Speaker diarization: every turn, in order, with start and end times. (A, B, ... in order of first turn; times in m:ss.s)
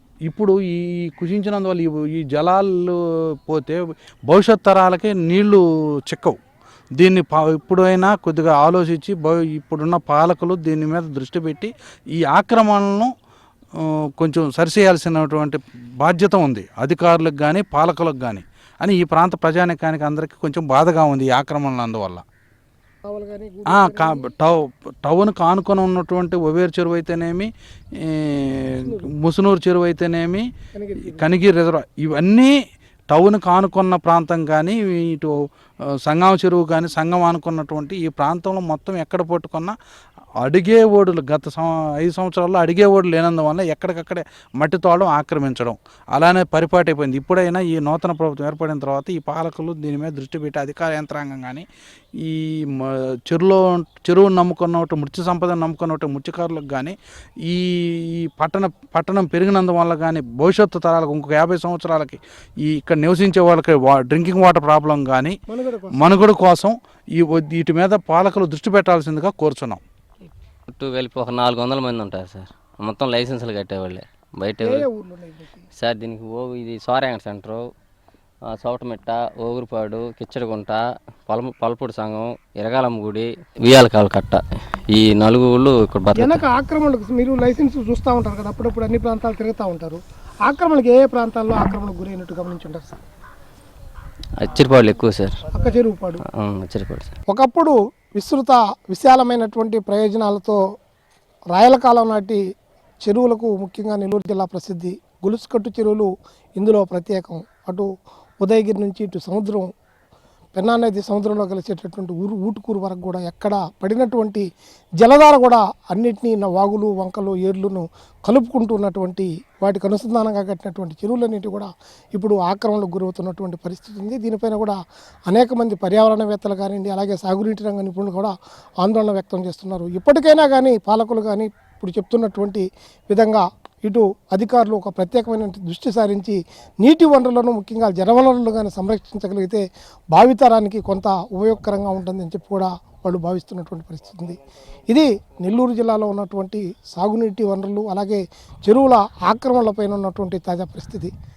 0:00.3-0:03.0 A
0:03.5-0:06.4 A
0:07.0-0:13.1 A
0:14.2-0:22.2 A
0:23.1-0:24.3 B
0:23.7-0:27.5 A
0:28.1-0:30.5 A
0:28.8-0:29.1 B
0:30.7-0:31.3 B
0:31.0-0:32.5 A
0:33.1-0:35.3 A
0:36.0-0:39.8 A
0:40.4-0:51.6 A
0:52.2-1:05.4 A
1:05.5-1:06.2 B
1:06.0-1:09.8 A
1:10.7-1:14.9 C
1:14.6-1:15.7 B
1:15.8-1:17.7 C
1:18.5-1:24.4 C
1:24.9-1:26.4 C
1:26.2-1:33.0 B
1:34.4-1:35.4 C
1:35.5-1:36.2 B
1:36.4-1:37.1 C
1:37.3-1:40.6 B
1:41.5-1:42.4 B
1:43.0-1:47.9 B
1:48.4-1:49.7 B
1:50.6-1:54.4 B
1:55.0-2:04.8 B
2:05.3-2:19.6 B
2:20.1-2:24.4 B
2:24.9-2:31.1 B